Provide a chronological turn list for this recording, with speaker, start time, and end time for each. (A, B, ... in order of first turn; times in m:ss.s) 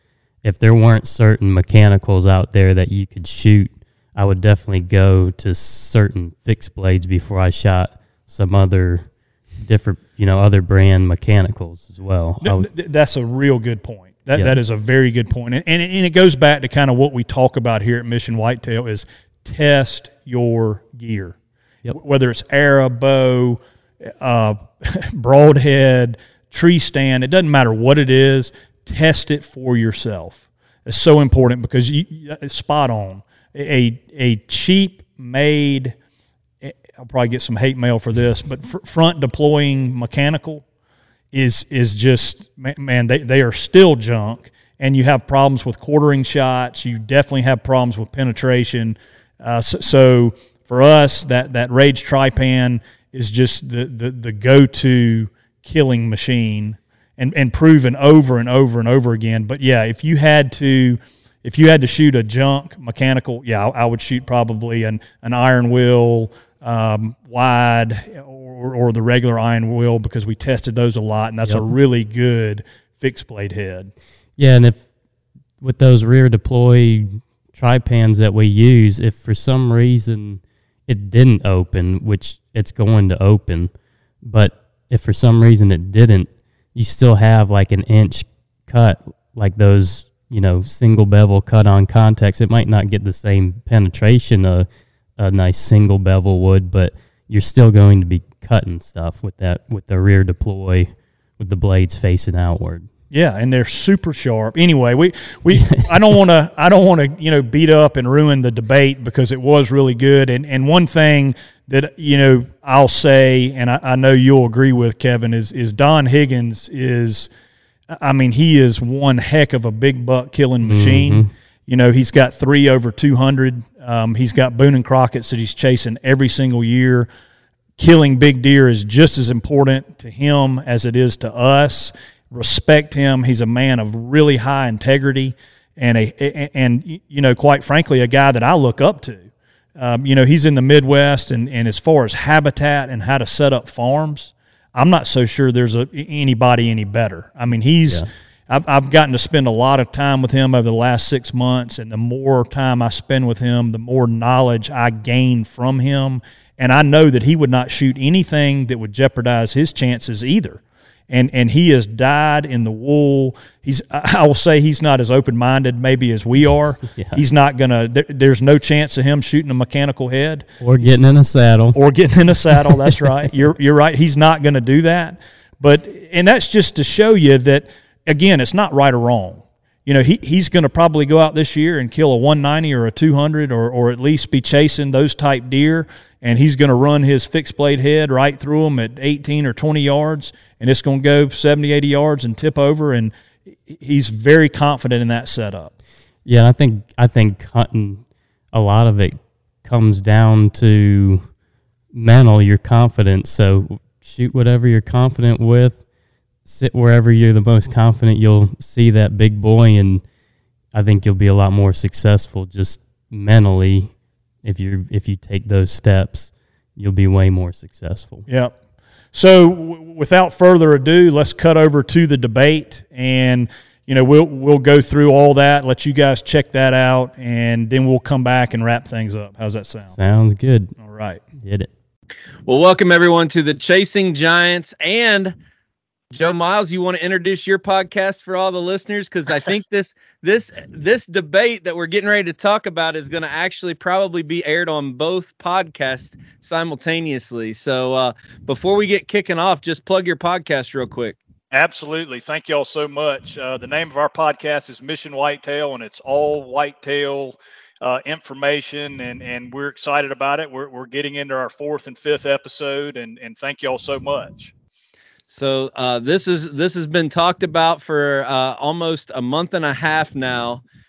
0:00.4-0:12.7 A
0:12.4-0:21.4 B
0:21.9-0:23.6 B
0:24.2-0:36.0 B
0:36.6-0:40.6 B
0:41.3-1:13.9 B
1:14.4-1:14.9 A
1:15.6-1:23.7 A
1:24.2-1:34.7 A
1:35.2-1:42.9 A
1:43.1-1:57.3 B
1:45.6-1:45.8 A
1:57.9-2:07.1 B
2:00.6-2:01.3 A
2:07.8-2:50.5 B
2:46.9-2:47.2 A
2:50.6-2:51.8 A
2:51.7-3:13.1 B
2:52.4-2:53.3 A
3:13.7-3:15.7 B
3:16.2-3:21.3 A
3:21.9-3:25.8 A
3:26.4-3:30.0 A
3:30.7-3:38.3 A
3:38.3-3:38.6 B
3:39.1-3:50.0 B
3:49.9-3:50.8 A
3:50.8-3:51.2 B
3:51.4-3:51.7 A
3:52.5-3:55.4 C
3:56.1-4:11.2 C
4:11.5-4:24.5 D
4:25.3-4:30.6 C